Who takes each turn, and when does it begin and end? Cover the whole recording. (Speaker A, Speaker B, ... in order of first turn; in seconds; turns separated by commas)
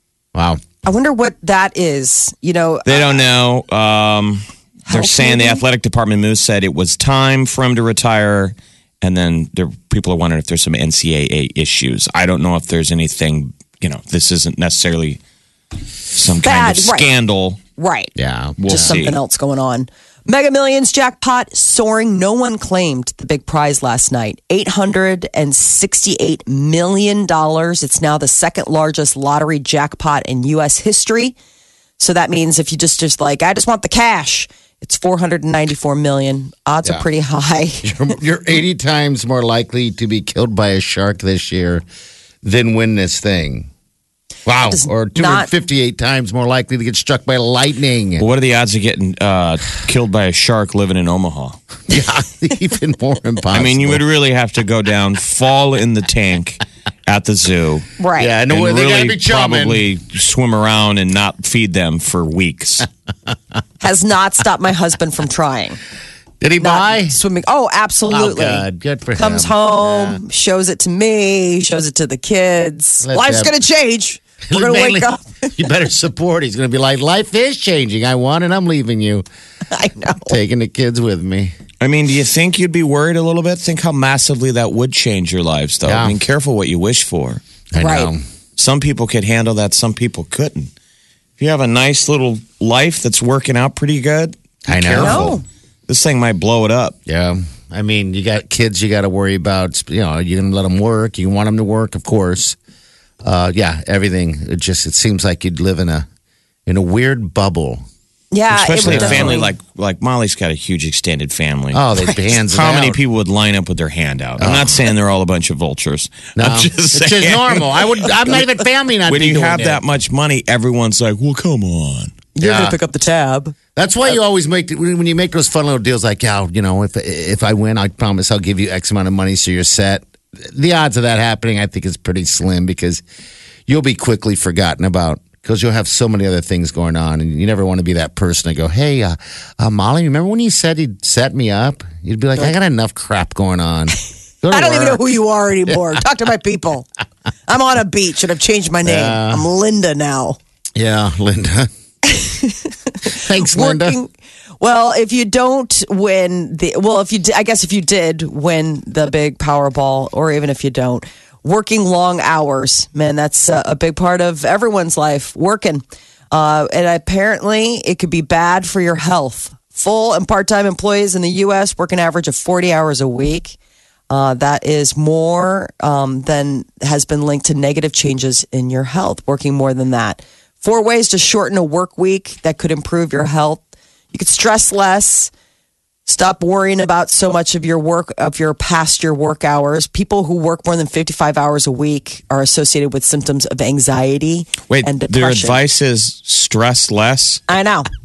Speaker A: 0.3-0.6, Speaker B: 0.8-3.2, Speaker C: 2.9-15.2, Speaker B: 4.9-5.6, Speaker C: 16.1-17.6, Speaker B: 16.4-17.1, Speaker B: 17.8-18.1, Speaker A: 18.2-19.0, Speaker C: 18.6-19.2, Speaker B: 18.7-31.4, Speaker B: 32.0-38.0, Speaker A: 37.8-41.8, Speaker A: 42.4-43.7, Speaker A: 44.5-48.2, Speaker B: 44.6-45.5, Speaker C: 48.2-51.6, Speaker A: 51.9-54.0, Speaker C: 53.5-57.9, Speaker B: 58.0-58.3, Speaker A: 58.2-59.8, Speaker C: 58.5-62.9, Speaker B: 63.8-65.8, Speaker A: 66.4-67.2, Speaker B: 66.6-68.7, Speaker A: 68.1-70.2, Speaker B: 69.2-75.5, Speaker A: 73.0-73.5, Speaker A: 74.5-79.2, Speaker B: 79.7-80.4, Speaker A: 80.3-81.5, Speaker C: 81.8-87.4, Speaker A: 85.8-86.2, Speaker A: 87.7-88.2, Speaker B: 87.8-88.1, Speaker C: 88.6-90.7, Speaker C: 91.4-95.4, Speaker A: 94.7-95.4, Speaker B: 95.0-95.4, Speaker C: 95.9-97.0, Speaker A: 97.1-102.6, Speaker A: 103.2-106.1, Speaker A: 106.7-107.8, Speaker B: 108.3-109.5, Speaker C: 108.5-111.8, Speaker A: 108.8-109.4, Speaker A: 111.7-113.0, Speaker C: 112.4-117.9, Speaker A: 114.4-114.8, Speaker A: 116.4-119.8, Speaker C: 119.1-122.2, Speaker B: 122.3-123.6, Speaker A: 122.4-122.8, Speaker A: 123.8-133.0, Speaker A: 133.7-145.0, Speaker B: 144.5-146.9, Speaker A: 145.7-146.0, Speaker B: 147.5-150.4, Speaker A: 148.8-149.4, Speaker A: 150.8-151.7, Speaker B: 152.1-173.6, Speaker A: 153.1-154.0, Speaker B: 174.1-185.3, Speaker B: 186.1-195.6, Speaker C: 194.7-197.4, Speaker B: 197.5-197.9